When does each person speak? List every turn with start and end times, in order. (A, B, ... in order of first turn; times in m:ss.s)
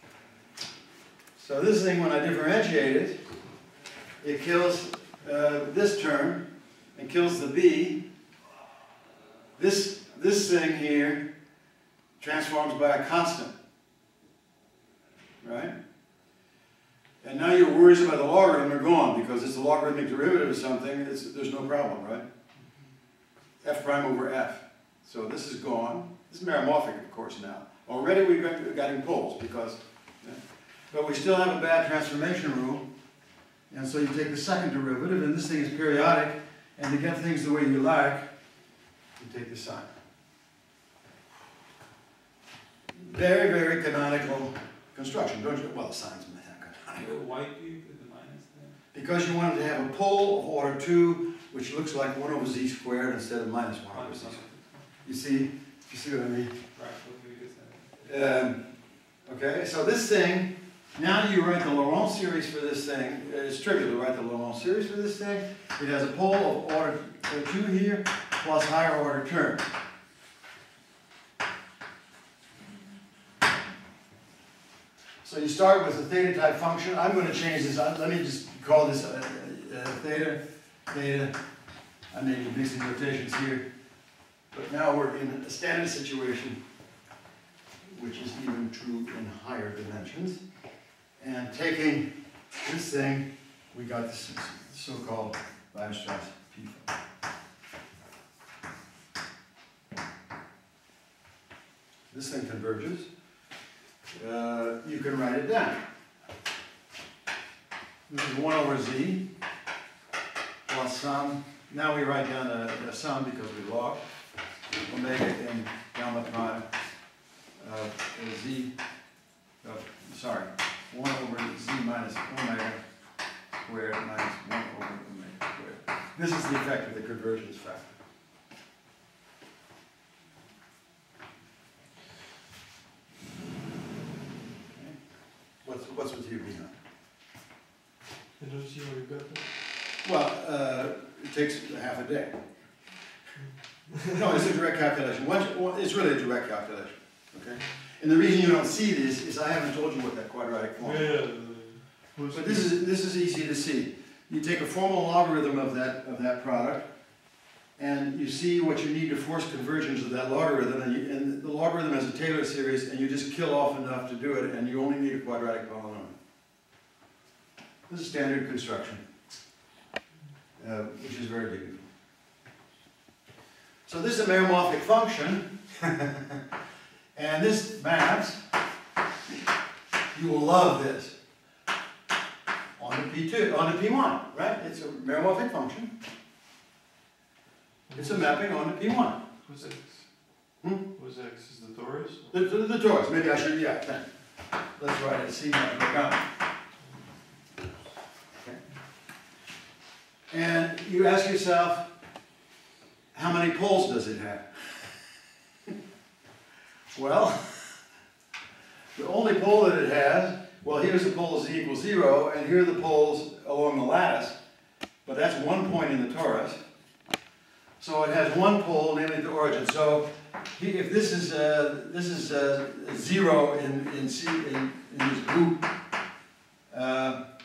0:01.4-0:03.2 A
0:04.2-0:08.0 A
0:09.6-0:11.3 A
0:12.2-0:13.5 A
0:15.4-0:15.8 A
0:17.2-0:22.2 A
0:23.6-0:32.8 A
0:33.7-0:38.3 A
0:39.2-0:39.9 A
0:43.0-0:47.1 A
0:47.0-0:48.8 B
0:48.9-0:54.4 A
0:53.9-0:54.9 B
0:55.0-0:56.6 A
0:56.7-0:57.9 B
0:58.0-0:58.6 A
0:59.3-1:09.7 A
1:15.2-1:21.3 A
1:22.1-1:23.7 A
1:24.5-1:26.6 A
1:27.9-1:30.4 A
1:31.2-1:36.9 A
1:42.1-1:43.1 A
1:44.1-1:45.8 A
1:48.1-1:49.2 A
1:50.7-1:54.0 A
1:54.8-1:56.6 A
1:57.6-1:58.7 A
1:59.6-2:02.8 A
2:03.5-2:07.9 A
2:15.6-2:16.7 A
2:18.4-2:19.5 C
2:20.0-2:22.4 A
2:24.0-2:31.1 A
2:30.8-2:32.8 C
2:32.3-2:36.9 A
2:37.8-2:46.2 A
2:47.9-2:49.0 A
2:50.6-2:51.8 A
2:53.8-2:56.4 A
2:57.1-2:58.4 A
3:00.1-3:01.1 A
3:02.8-3:05.9 A
3:07.9-3:08.4 C
3:08.0-3:09.2 A
3:09.4-3:10.0 C
3:10.9-3:12.3 C
3:12.3-3:14.0 A
3:14.8-3:16.2 A
3:20.3-3:21.9 A
3:23.1-3:24.8 A
3:26.9-3:27.8 A
3:29.0-3:34.4 A
3:35.0-3:36.6 A
3:37.8-3:45.7 A
3:46.7-3:47.2 A